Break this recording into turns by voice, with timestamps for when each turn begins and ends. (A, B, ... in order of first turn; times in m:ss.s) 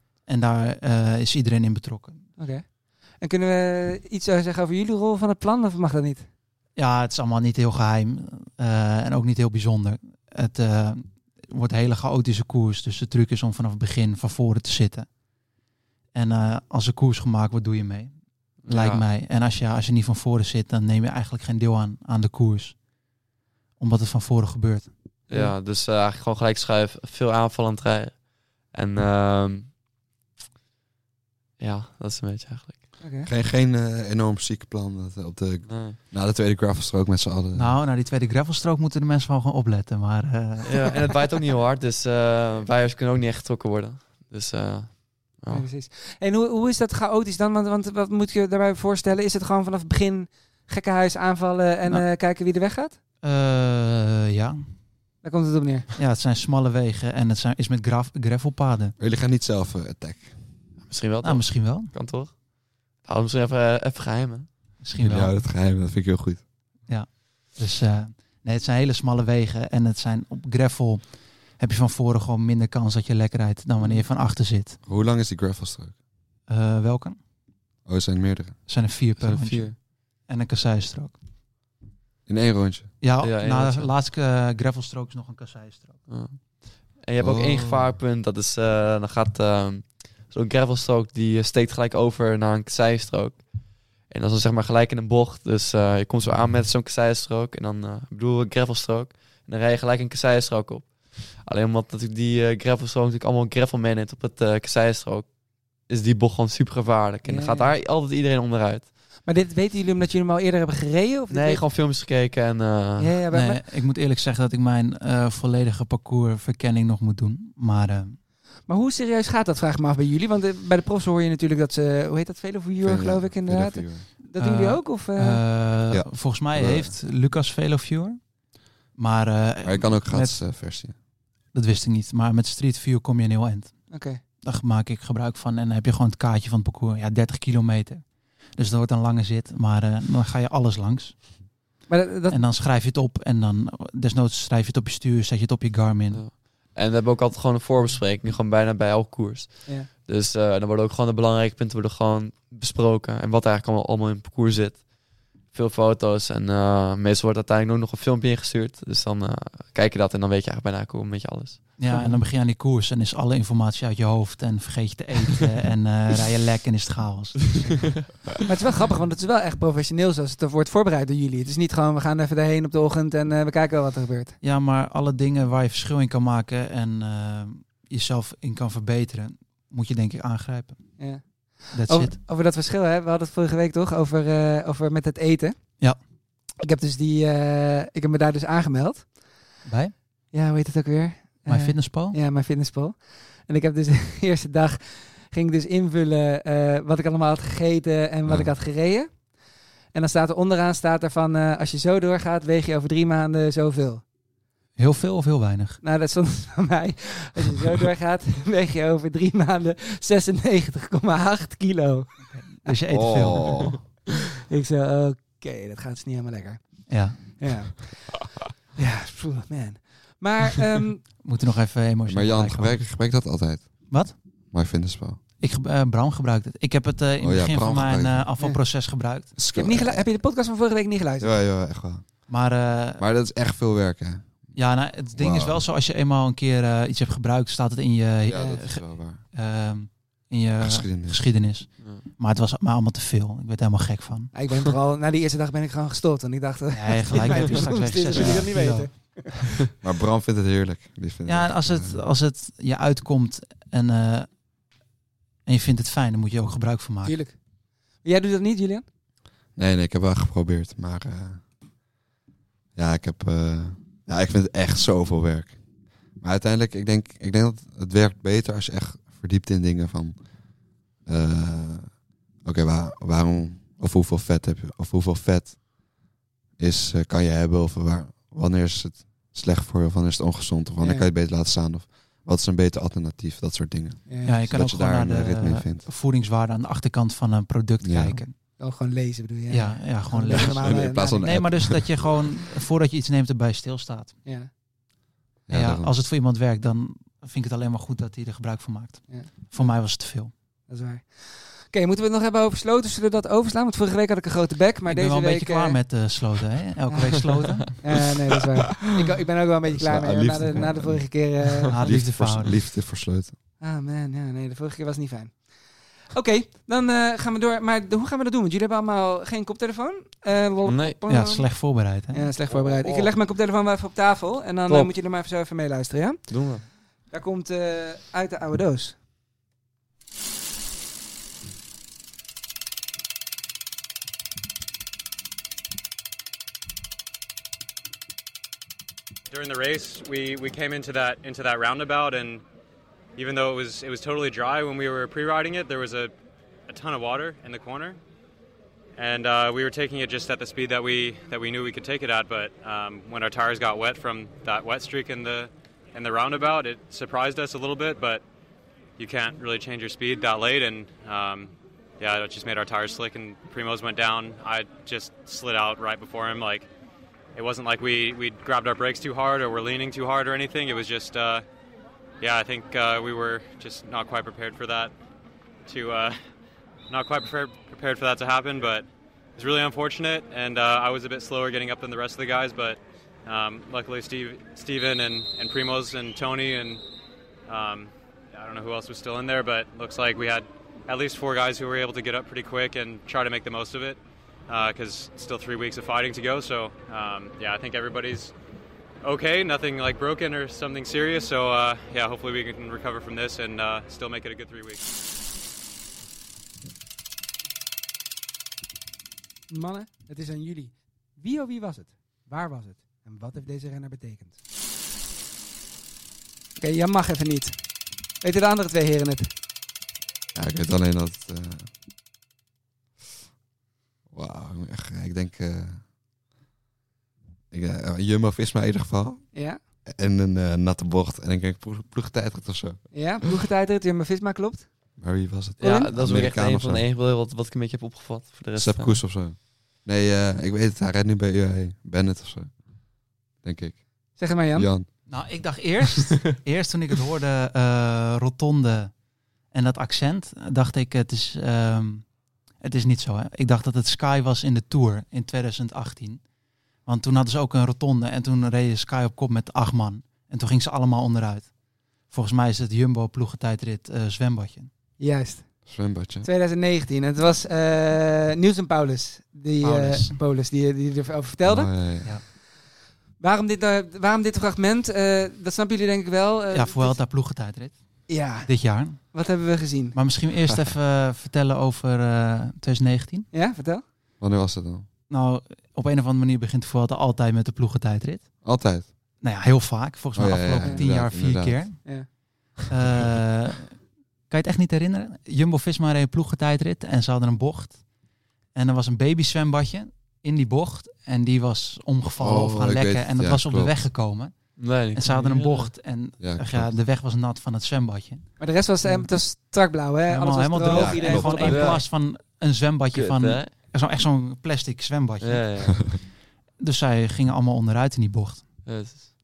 0:00.2-0:02.2 A
0:02.4-0:02.7 B
0:03.2-0:06.2 B
0:06.8-0:15.1 A
0:16.1-0:18.1 A
0:18.6-0:19.0 C
0:18.7-0:22.8 A
0:23.8-0:24.9 A
0:25.3-0:29.7 C
0:31.6-0:32.9 C
0:33.0-0:33.3 B
0:33.2-0:37.7 D
0:35.6-0:36.0 C
0:37.6-0:40.7 A
0:40.6-0:45.7 C
0:45.5-0:53.0 B
0:53.2-0:54.6 A
0:55.2-0:55.9 B
0:56.0-0:58.9 A
0:59.0-1:00.4 D
1:00.9-1:02.3 C
1:01.2-1:01.9 A
1:03.0-1:04.5 C
1:04.8-1:05.3 A
1:05.0-1:06.4 D
1:06.9-1:14.8 A
1:14.8-1:15.9 D
1:16.5-1:17.2 A
1:17.8-1:18.7 D
1:18.7-1:21.2 A
1:19.2-1:19.8 C
1:22.2-1:22.9 D
1:23.0-1:26.1 A
1:23.2-1:23.9 C
1:26.1-1:49.0 C
1:27.2-1:27.8 D
1:47.2-1:47.7 B
1:49.2-1:51.6 B
1:51.3-1:53.1 C
1:53.0-1:53.6 B
1:53.3-1:58.2 A
1:58.6-2:05.4 B
2:02.8-2:04.1 D
2:04.4-2:08.2 A
2:05.9-2:06.9 D
2:08.9-2:10.4 A
2:09.6-2:10.9 D
2:11.5-2:13.9 A
2:13.9-2:14.2 B
2:14.4-2:18.0 A
2:18.6-2:21.2 A
2:21.9-2:22.4 B
2:22.3-2:26.2 A
2:26.1-2:34.9 C
2:29.6-2:29.9 B
2:35.4-2:41.8 C
2:41.8-2:47.7 A
2:41.8-2:42.2 B
2:48.4-2:54.4 B
2:54.4-3:00.8 A
3:01.0-3:05.6 B
3:01.7-3:02.2 A
3:06.6-3:09.1 B
3:09.6-3:09.9 A
3:10.3-3:19.2 B
3:11.5-3:12.2 A
3:18.2-3:18.5 D
3:19.9-3:24.0 B
3:24.8-3:25.8 A
3:25.8-3:32.8 B
3:32.3-3:33.7 A
3:32.9-3:33.8 D
3:34.3-3:36.6 B
3:36.9-3:37.3 A
3:37.2-3:38.2 B
3:38.8-3:41.0 B
3:41.2-3:42.8 A
3:42.1-3:43.9 D
3:44.5-3:45.2 D
3:45.4-3:49.3 A
3:47.2-3:48.2 D
3:49.4-3:50.1 D
3:49.5-3:51.4 B
3:51.2-3:52.2 D
3:52.3-3:53.0 A
3:53.0-3:54.6 D
3:54.5-4:04.3 A
3:55.1-3:55.6 D
3:58.3-3:59.2 D
4:00.6-4:01.2 D
4:04.3-4:09.5 B
4:06.7-4:09.4 A
4:09.8-4:12.0 D
4:11.2-4:14.3 A
4:15.4-4:17.2 A
4:17.0-4:17.4 B
4:18.0-4:18.8 B
4:19.6-4:21.4 D
4:22.8-4:25.6 D
4:26.2-4:30.2 D
4:31.0-4:35.6 D
4:36.6-4:45.9 D
4:40.8-4:41.1 B
4:44.1-4:44.4 B
4:44.2-4:48.3 A
4:47.8-4:48.2 D
4:48.6-4:51.2 B
4:49.5-4:54.2 A
4:50.3-4:52.1 D
4:54.2-4:54.5 B
4:55.5-4:55.9 D
4:55.5-5:00.3 A
4:59.1-4:59.7 B
5:00.7-5:05.8 B
5:04.9-5:07.8 A
5:07.8-5:11.8 B
5:09.7-5:13.4 D
5:11.7-5:12.6 A
5:13.6-5:15.4 B
5:16.1-5:21.5 B
5:20.6-5:21.0 C
5:21.1-5:22.3 A
5:22.1-5:26.5 B
5:22.5-5:23.1 C
5:24.7-5:24.9 C
5:26.3-5:26.6 C
5:27.1-5:28.9 B
5:39.3-5:42.4 E
5:43.2-5:46.1 E
5:46.7-5:48.0 E
5:49.0-5:58.2 E
5:59.0-6:06.7 E
6:07.3-6:11.4 E
6:12.2-6:14.9 E
6:15.6-6:16.2 E
6:16.9-6:26.8 E
6:27.5-6:38.3 E
6:39.0-6:44.8 E
6:49.5-6:54.4 B
6:56.6-6:57.5 B
6:58.2-6:59.3 B
7:00.3-7:01.7 D
7:04.1-7:05.8 D
7:07.5-7:09.3 D
7:09.3-7:09.6 B
7:09.8-7:12.9 D
7:12.9-7:14.7 B
7:15.0-7:16.8 D
7:15.6-7:19.0 C
7:15.6-7:15.9 B
7:18.6-7:22.6 D
7:23.4-7:23.8 D
7:24.2-7:24.7 B
7:24.5-7:24.9 D
7:25.1-7:28.9 A
7:29.5-7:32.0 A
7:32.6-7:36.2 A
7:36.8-7:41.5 A
7:42.1-7:44.7 A
7:45.0-7:45.5 B
7:45.6-7:46.3 D
7:46.2-7:51.7 B
7:49.6-7:50.2 A
7:51.4-7:52.1 D
7:53.2-7:57.0 B
7:56.5-7:59.1 A
7:58.1-8:00.0 B
7:59.9-8:03.3 A
8:03.3-8:03.8 B
8:04.2-8:04.8 D
8:05.1-8:08.3 A
8:08.4-8:08.9 D
8:09.2-8:11.8 A
8:10.1-8:11.7 D
8:12.7-8:13.8 A
8:14.3-8:17.8 A
8:18.5-8:28.3 A
8:22.2-8:23.8 D
8:24.6-8:25.7 C
8:26.2-8:26.7 D
8:28.4-8:31.8 B
8:28.8-8:29.1 A
8:30.1-8:36.0 A
8:30.7-8:31.4 D
8:31.1-8:31.8 C
8:32.9-8:33.5 C
8:35.2-8:36.0 C
8:36.6-8:38.6 A
8:38.6-8:39.1 C